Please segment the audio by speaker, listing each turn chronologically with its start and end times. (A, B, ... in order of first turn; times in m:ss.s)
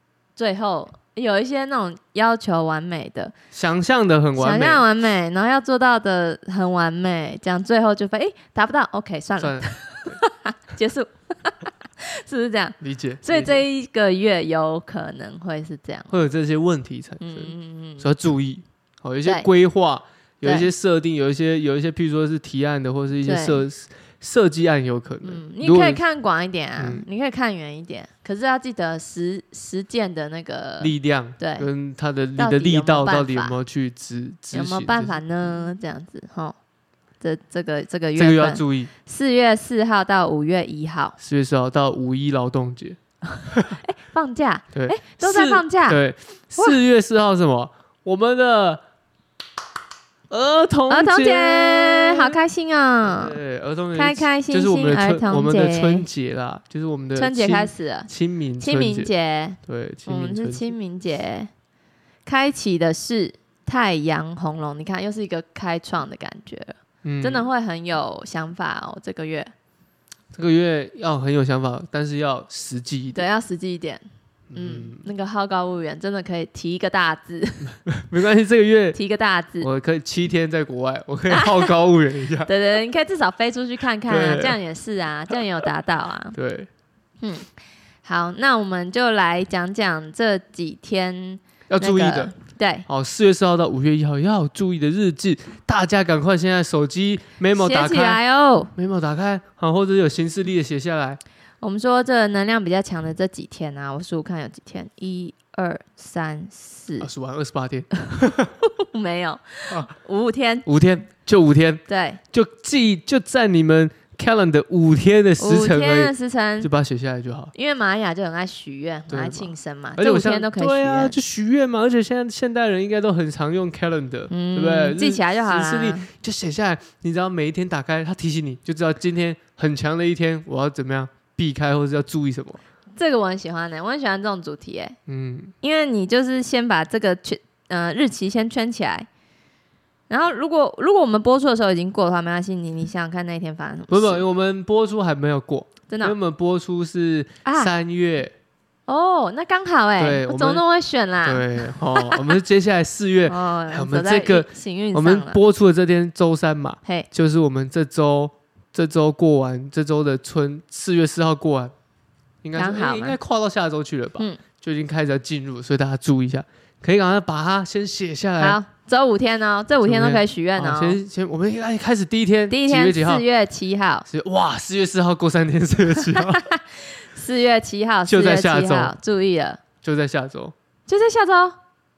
0:00.4-0:03.3 A
0:03.5-0:04.8 B
0:04.4-0:16.1 A
0:09.4-0:10.2 B
0:12.8-0:13.6 B
0:16.1-0:26.0 B
0:17.2-0:18.0 A
0:20.4-0:20.7 A
0:23.2-0:23.6 A
0:25.2-0:31.7 A
0:26.8-0:27.0 B
0:30.8-0:35.2 B
0:32.4-0:33.5 A
0:34.5-0:36.6 A
0:37.2-0:41.2 A
0:38.2-0:38.9 B
0:41.2-0:43.0 B
0:43.3-0:46.0 A
0:44.7-0:48.8 B
0:50.3-0:52.4 B
0:50.9-0:53.4 A
0:53.0-0:59.1 B
0:53.9-0:56.0 A
0:57.2-0:58.1 A
0:58.6-1:01.5 A
0:59.6-1:00.7 B
1:02.2-1:09.5 A
1:07.0-1:07.4 B
1:10.3-1:13.2 B
1:13.1-1:14.0 A
1:14.5-1:15.0 B
1:14.5-1:17.8 A
1:17.8-1:19.0 B
1:18.9-1:19.7 A
1:19.6-1:22.5 B
1:21.3-1:21.7 A
1:22.4-1:26.3 A
1:24.1-1:24.6 B
1:26.3-1:26.7 B
1:27.2-1:27.5 A
1:28.0-1:32.8 A
1:31.7-1:32.3 B
1:32.9-1:38.2 B
1:37.5-1:38.7 A
1:38.7-1:41.2 B
1:41.6-1:47.1 A
1:47.0-1:48.5 B
1:48.6-1:50.6 A
1:49.7-1:49.9 B
1:50.6-1:57.5 B
1:51.9-1:52.2 A
1:55.4-1:56.7 A
1:57.5-2:01.2 A
1:59.1-2:12.6 B
2:04.3-2:06.1 A
2:12.9-2:15.0 A
2:15.1-2:15.5 B
2:15.6-2:19.1 A
2:20.1-2:24.2 A
2:23.9-2:28.3 B
2:25.9-2:26.1 A
2:27.4-2:27.7 A
2:28.9-2:32.3 A
2:30.0-2:30.6 B
2:31.2-2:41.7 B
2:33.3-2:35.4 A
2:42.4-2:48.6 B
2:42.6-2:43.2 A
2:48.4-2:51.0 A
2:49.8-2:53.2 B
2:52.5-2:54.0 A
2:54.0-2:56.5 B
2:56.0-2:59.6 A
2:58.0-2:58.9 B
2:59.8-3:00.5 B
3:00.9-3:01.6 A